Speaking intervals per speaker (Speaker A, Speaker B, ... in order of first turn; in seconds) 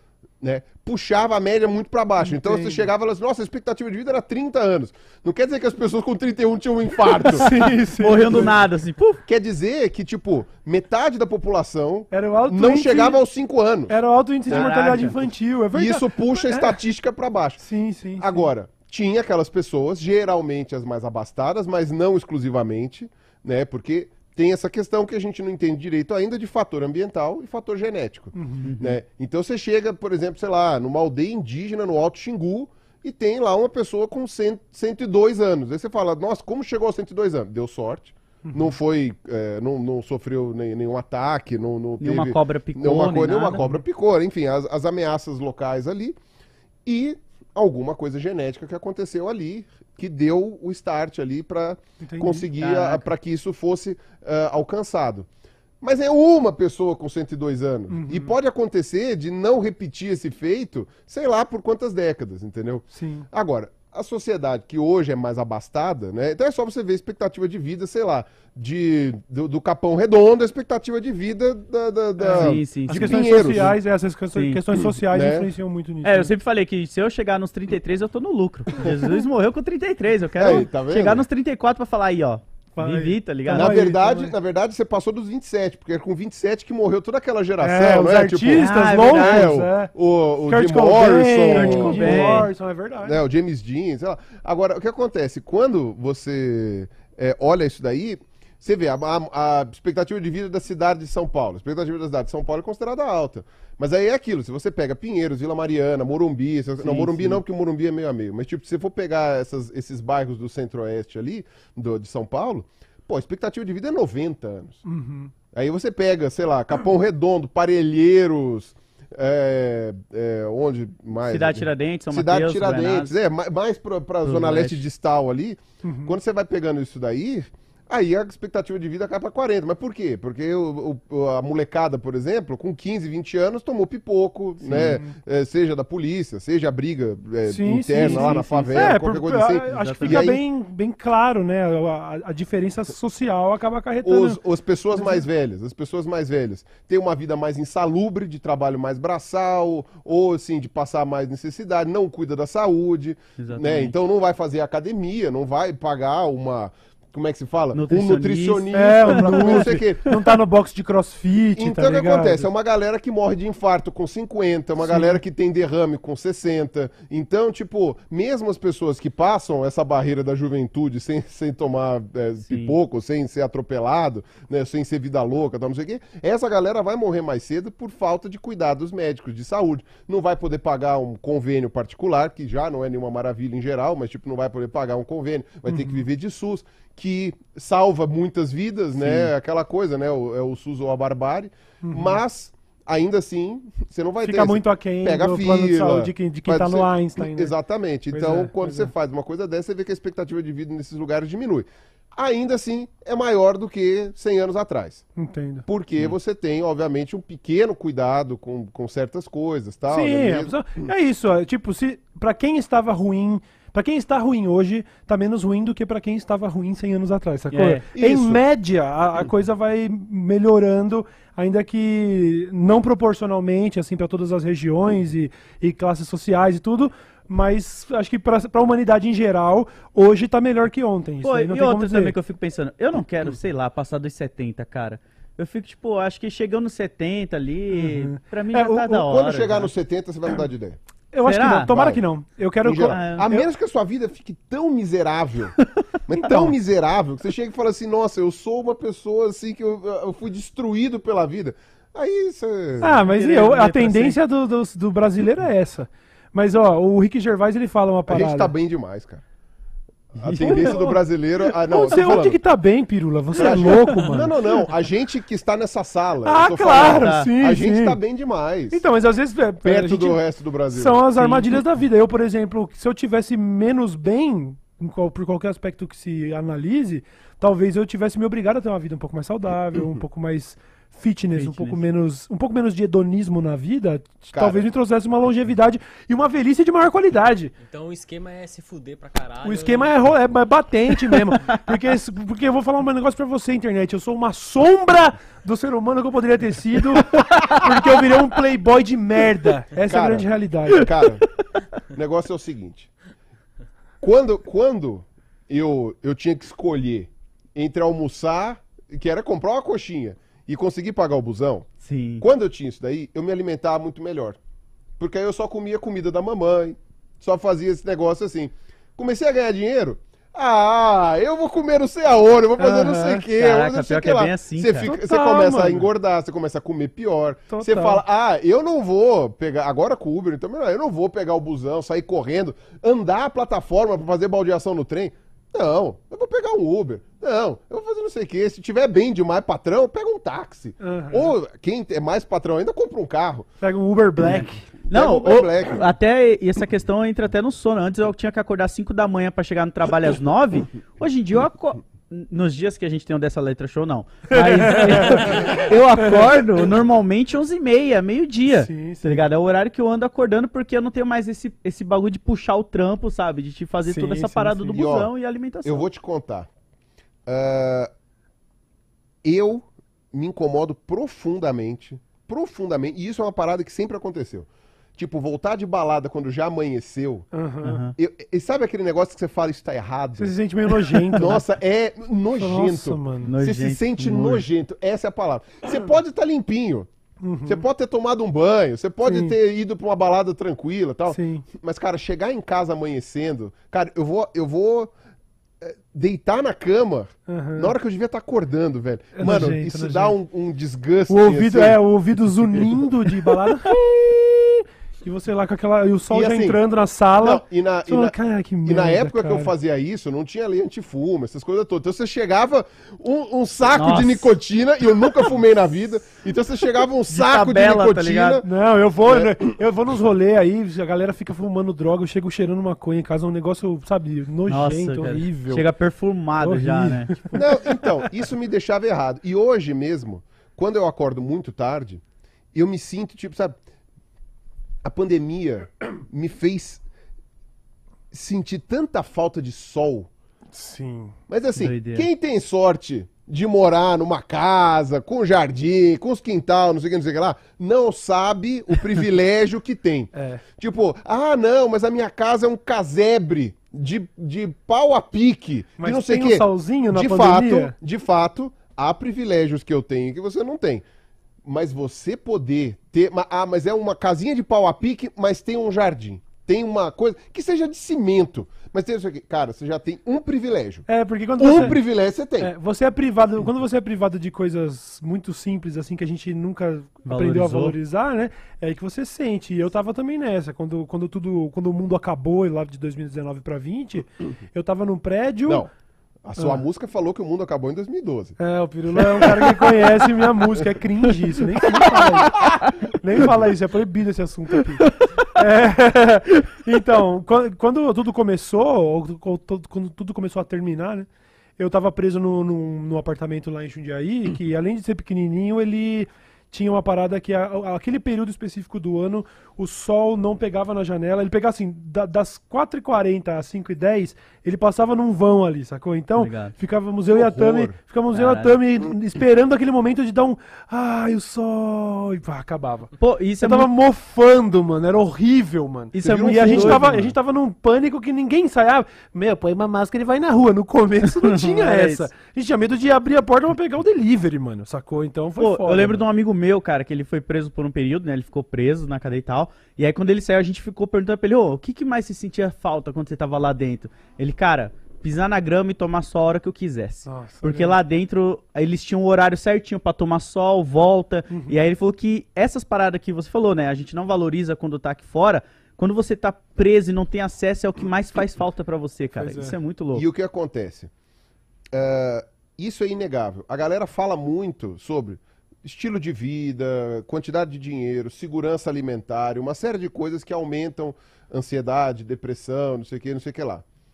Speaker A: 0.4-7.5, 9.3-14.0, 14.5-15.1, 15.7-17.6, 18.2-46.2, 46.9-55.3, 55.8-73.8, 75.0-75.5, 80.4-81.3, 83.5-92.5, 93.0-114.8, 115.5-140.4, 144.0-160.2, 161.6-205.1, 205.7-210.9, 217.9-218.4, 238.9-240.8, 241.7-242.0, 242.6-253.0, 258.1-259.2, 260.1-262.4, 263.4-268.8, 269.6-271.0, 284.3-284.6, 299.9-301.3, 301.8-302.9, 304.0-311.7, 312.2-314.4, 315.0-343.5, 344.9-345.8, 364.6-365.1, 365.6-366.5, 367.3-367.9, 369.2-377.3, 378.0-386.9, 387.4-394.9, 395.6-401.8, 406.1-406.6, 407.2-418.5, 419.1-419.4, 427.3-432.0, 432.5-433.6, 434.8-436.8, 438.1-440.1, 441.3-460.9, 461.4-470.9, 471.4-472.5, 486.2-488.4, 488.9-489.4, 517.1-517.8, 526.0-527.1, 559.9-560.9, 561.7-573.6
Speaker B: 2.2-2.9, 7.3-8.5, 12.1-13.2, 13.9-16.8, 17.6-18.5, 28.3-28.7, 38.4-38.7, 52.0-52.5, 57.9-58.3, 62.9-63.3, 72.2-76.3, 82.8-84.3, 87.6-89.9, 90.5-93.2, 114.8-115.3, 125.8-126.2, 134.7-135.2, 137.5-144.4, 144.9-145.2, 158.7-162.5, 164.8-165.2, 185.7-186.0, 191.8-192.2, 194.2-197.5, 198.1-198.9, 205.2-205.7, 209.9-232.1, 237.7-239.0, 241.1-243.4, 252.8-258.5, 260.4-261.0, 261.6-264.3, 266.2-268.0, 268.7-287.5, 289.4-300.9, 322.6-323.2, 324.9-325.9, 327.5-328.0, 340.8-341.3, 343.6-344.6, 354.3-356.4, 358.5-359.2, 363.9-364.6, 377.3-377.9, 380.2-381.4, 382.4-383.3, 387.2-387.6, 389.1-389.4, 391.1-391.5, 397.3-397.7, 399.1-400.1, 401.1-403.8, 404.5-409.5, 418.4-425.7, 426.4-427.9, 440.5-441.1, 450.1-450.4, 455.8-457.8, 470.9-471.8, 472.4-485.7, 488.4-536.0, 547.1-547.8, 551.3-551.6, 559.2-559.6
Speaker C: 7.5-9.2, 14.5-15.2, 28.6-29.0, 42.0-43.6, 52.6-53.0, 72.3-73.8, 74.3-74.6, 76.0-83.8, 88.5-89.5, 91.5-92.5, 106.8-107.4, 121.3-123.1, 124.2-124.8, 138.0-138.9, 139.7-140.3, 153.4-153.9, 157.7-159.8, 189.0-189.3, 217.5-217.8, 231.2-239.7, 241.2-241.8, 242.9-243.3, 246.2-246.5, 253.1-254.2, 260.3-261.0, 263.4-264.1, 266.7-267.3, 281.4-281.8, 297.1-298.1, 311.8-312.3, 322.9-324.9, 344.2-365.9, 377.6-377.9, 383.3-384.4, 413.7-414.3, 417.1-418.4, 424.5-427.3, 441.6-442.1, 477.1-477.8, 516.2-516.5, 518.1-518.6, 523.0-523.7, 525.9-526.9, 531.1-532.0, 535.4-560.1
Speaker D: 287.6-290.0